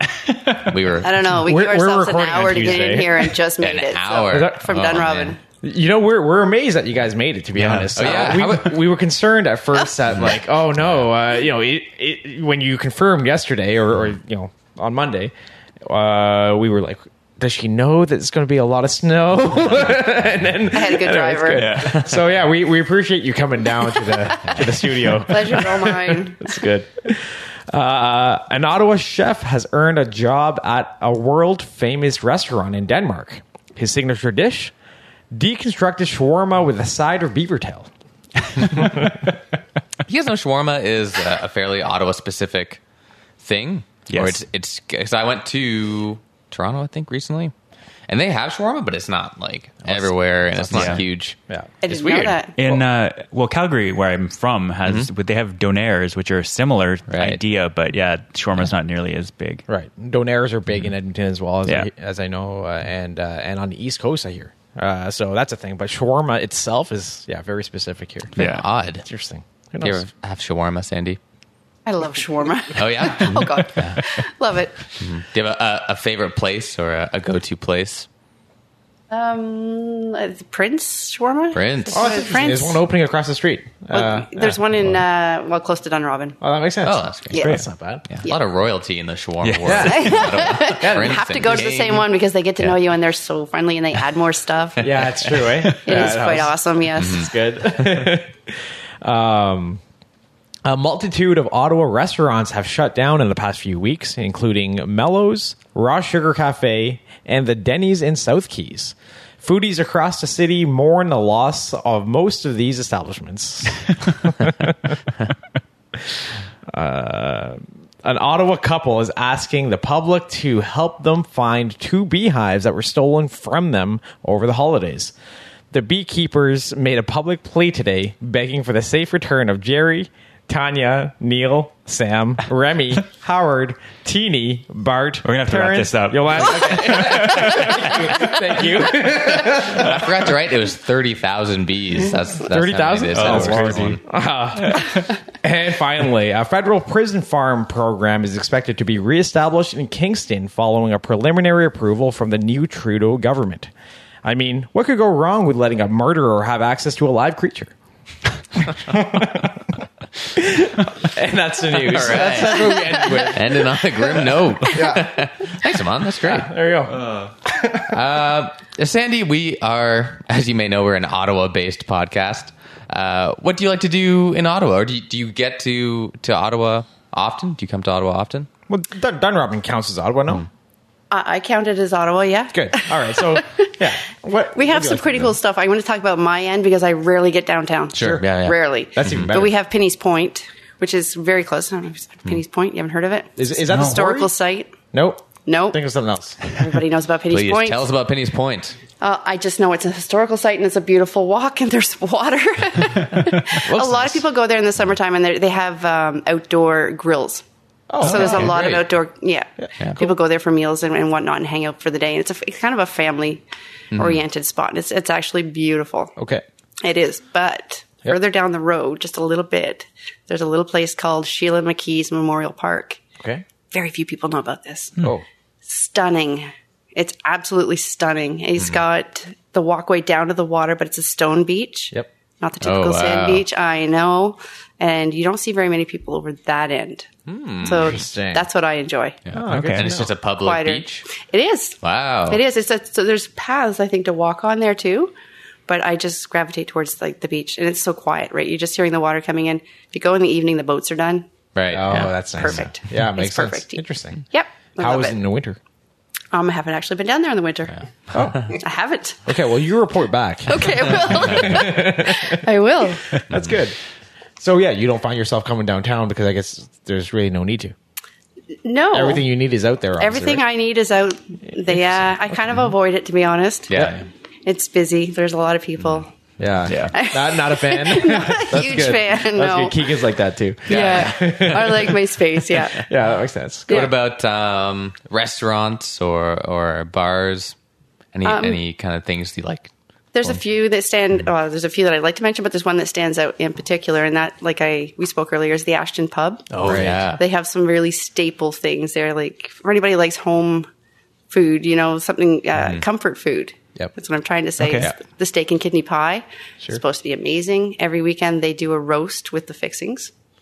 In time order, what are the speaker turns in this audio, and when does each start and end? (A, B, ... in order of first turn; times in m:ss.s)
0:00.2-0:00.7 A
0:00.5-0:01.1 B
0:01.0-0:05.4 C
0:01.3-0:03.3 D
0:03.6-0:05.4 B
0:04.3-0:04.7 D
0:05.6-0:15.3 D
0:07.6-0:08.7 A
0:07.9-0:08.8 B
0:15.8-0:34.7 D
0:20.7-0:21.7 C
0:21.5-0:22.1 A
0:24.4-0:26.7 C
0:35.3-0:37.9 D
0:38.6-0:39.1 A
0:38.7-0:39.1 D
0:40.0-0:42.8 B
0:43.4-0:47.5 B
0:44.1-0:44.4 A
0:48.1-0:51.4 B
0:49.8-0:52.4 D
0:50.7-0:51.0 A
0:51.8-0:52.8 C
0:52.6-0:59.6 A
0:57.1-0:57.4 B
0:59.7-1:08.3 D
1:08.4-1:09.0 B
1:08.4-1:08.6 A
1:09.0-1:10.0 D
1:09.8-1:11.2 B
1:11.8-1:14.9 C
1:12.7-1:14.0 B
1:15.0-1:18.1 B
1:19.1-1:22.8 C
1:21.5-1:22.3 B
1:21.9-1:24.9 D
1:23.9-1:26.4 C
1:26.4-1:28.0 D
1:26.8-1:27.5 B
1:27.3-1:27.6 C
1:27.4-1:27.6 A
1:28.1-1:32.0 B
1:29.4-1:30.0 A
1:29.6-1:31.6 D
1:29.8-1:34.9 C
1:34.8-1:39.8 D
1:35.8-1:37.3 C
1:37.0-1:37.3 B
1:40.6-1:55.0 D
1:56.7-2:05.1 D
2:05.7-2:20.1 D
2:15.2-2:18.6 A
2:16.6-2:17.4 B
2:19.6-2:24.0 B
2:19.8-2:20.0 A
2:22.5-2:33.7 D
2:23.1-2:24.0 A
2:24.6-2:25.0 A
2:34.2-2:37.7 D
2:38.6-2:39.8 D
2:40.3-2:43.8 D
2:41.8-2:46.5 B
2:44.7-2:45.1 D
2:46.2-2:48.0 D
2:46.9-2:47.3 A
2:47.9-2:58.5 B
2:58.7-3:00.4 D
3:01.1-3:03.8 C
3:02.5-3:05.3 D
3:04.5-3:14.7 C
3:07.9-3:09.5 B
3:08.0-3:08.3 D
3:09.0-3:09.5 D
3:13.4-3:14.3 D
3:13.7-3:14.0 A
3:14.9-3:16.4 D
3:15.4-3:15.8 C
3:16.4-3:17.9 C
3:17.3-3:18.8 B
3:19.0-3:27.4 C
3:23.6-3:24.2 D
3:27.9-3:28.9 D
3:28.0-3:36.1 C
3:28.0-3:28.4 A
3:28.2-3:28.8 B
3:29.6-3:30.1 D
3:33.9-3:34.2 B
3:36.2-3:36.4 D
3:36.8-3:43.0 C
3:43.2-3:43.4 D
3:43.7-3:45.0 C
3:45.6-3:57.1 C
3:52.6-3:53.4 B
3:57.2-3:58.0 B
3:57.6-3:59.2 C
3:57.8-3:58.4 D
3:59.2-4:01.1 B
3:59.3-4:00.1 D
3:59.4-3:59.9 A
4:00.4-4:05.1 C
4:01.8-4:02.4 B
4:05.7-4:11.3 C
4:11.5-4:12.6 B
4:11.7-4:14.2 D
4:12.3-4:15.2 C
4:14.8-4:15.6 D
4:16.3-4:17.8 C
4:18.1-4:18.5 D
4:18.5-4:19.2 C
4:19.2-4:22.4 D
4:20.5-4:23.1 C
4:23.1-4:23.8 D
4:24.4-4:27.7 D
4:28.6-4:29.3 C
4:28.9-4:30.4 D
4:30.0-4:36.1 C
4:31.7-4:32.0 D
4:33.7-4:34.0 B
4:36.4-4:42.1 D
4:36.7-4:36.9 A
4:36.7-4:39.9 C
4:40.7-4:41.9 B
4:40.7-4:42.8 C
4:42.7-4:43.9 D
4:43.7-4:47.5 B
4:48.1-4:49.7 B
4:48.2-4:48.6 C
4:50.1-5:00.7 C
4:56.5-4:57.0 D
4:56.6-4:57.2 B
5:01.3-5:10.1 C
5:02.6-5:02.8 B
5:04.6-5:04.9 A